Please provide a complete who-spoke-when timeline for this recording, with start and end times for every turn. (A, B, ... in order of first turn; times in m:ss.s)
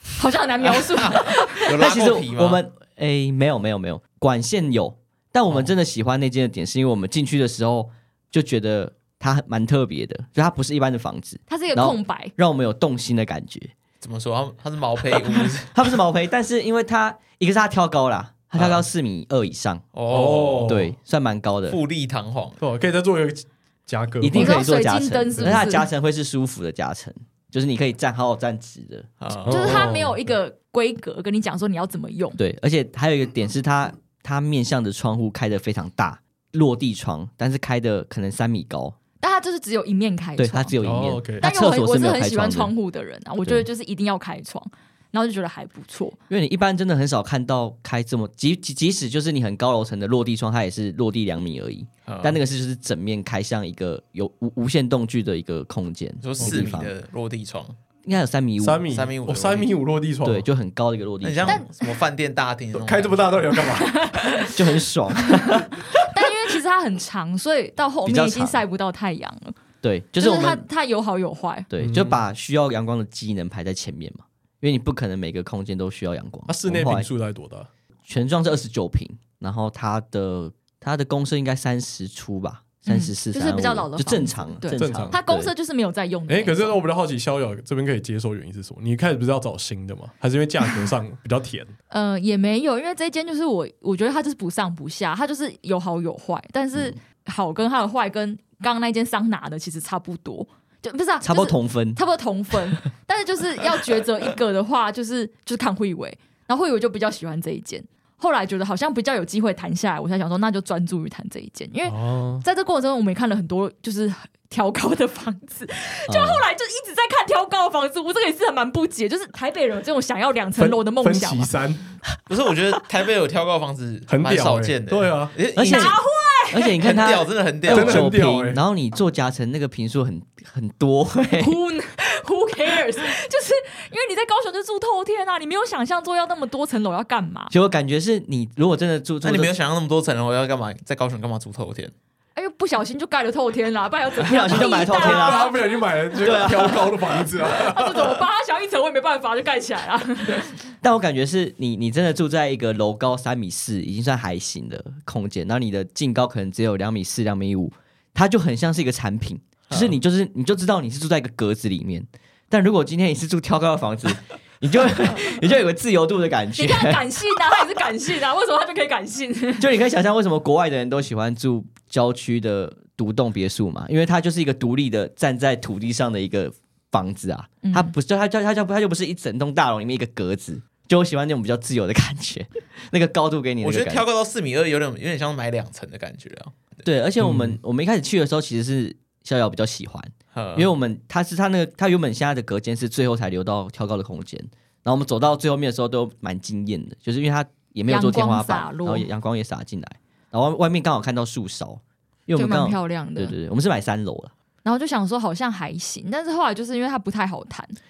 0:00.2-0:01.8 A
0:00.8-0:02.6 B
0:01.8-0:13.7 C
0:11.5-0:12.3 A
0:14.0-0:15.8 B
0:15.5-0:19.8 C
0:19.9-0:20.7 B
0:20.1-0:20.9 D
0:20.6-0:21.8 C
0:21.7-0:22.6 B
0:22.6-0:24.6 D
0:24.2-0:29.1 C
0:24.3-0:25.9 A
0:29.2-0:29.8 B
0:29.4-0:30.2 D
0:29.5-0:32.4 A
0:32.4-0:39.0 C
0:39.2-0:40.7 A
0:40.4-0:42.7 C
0:40.8-0:41.4 D
0:41.4-0:46.2 A
0:46.3-0:56.9 C
0:52.1-0:52.4 B
0:56.2-0:57.8 B
0:58.0-0:58.8 C
0:58.6-1:00.5 D
0:58.9-0:59.7 B
1:00.2-1:01.6 C
1:01.2-1:03.3 B
1:01.4-1:01.9 A
1:02.7-1:04.3 D
1:03.8-1:04.6 A
1:04.5-1:05.8 C
1:05.4-1:09.6 A
1:08.0-1:08.6 C
1:09.8-1:10.6 C
1:10.2-1:11.7 A
1:11.7-1:17.1 C
1:11.8-1:12.2 D
1:16.5-1:17.7 D
1:18.1-1:25.5 C
1:22.8-1:26.8 A
1:24.7-1:25.2 D
1:26.3-1:31.7 D
1:31.9-2:01.5 A
1:41.2-1:42.0 C
1:51.8-1:52.4 D
1:56.1-1:56.4 C
2:00.6-2:01.9 D
2:02.3-2:06.0 B
2:04.1-2:05.4 D
2:05.6-2:11.6 C
2:05.6-2:06.8 A
2:06.8-2:08.2 B
2:07.7-2:08.6 D
2:11.4-2:17.5 A
2:17.5-2:19.5 C
2:19.2-2:21.9 B
2:22.4-2:25.7 A
2:24.2-2:25.5 C
2:24.9-2:28.2 D
2:26.2-2:27.0 C
2:27.5-2:30.5 A
2:30.8-2:47.6 C
2:39.7-2:40.0 B
2:46.6-2:49.7 A
2:49.6-3:04.0 C
2:57.6-2:57.9 A
3:03.6-3:06.8 B
3:06.8-3:24.3 C
3:07.2-3:07.6 D
3:10.3-3:10.7 B
3:17.9-3:19.1 A
3:22.4-3:23.3 A
3:24.6-3:27.8 A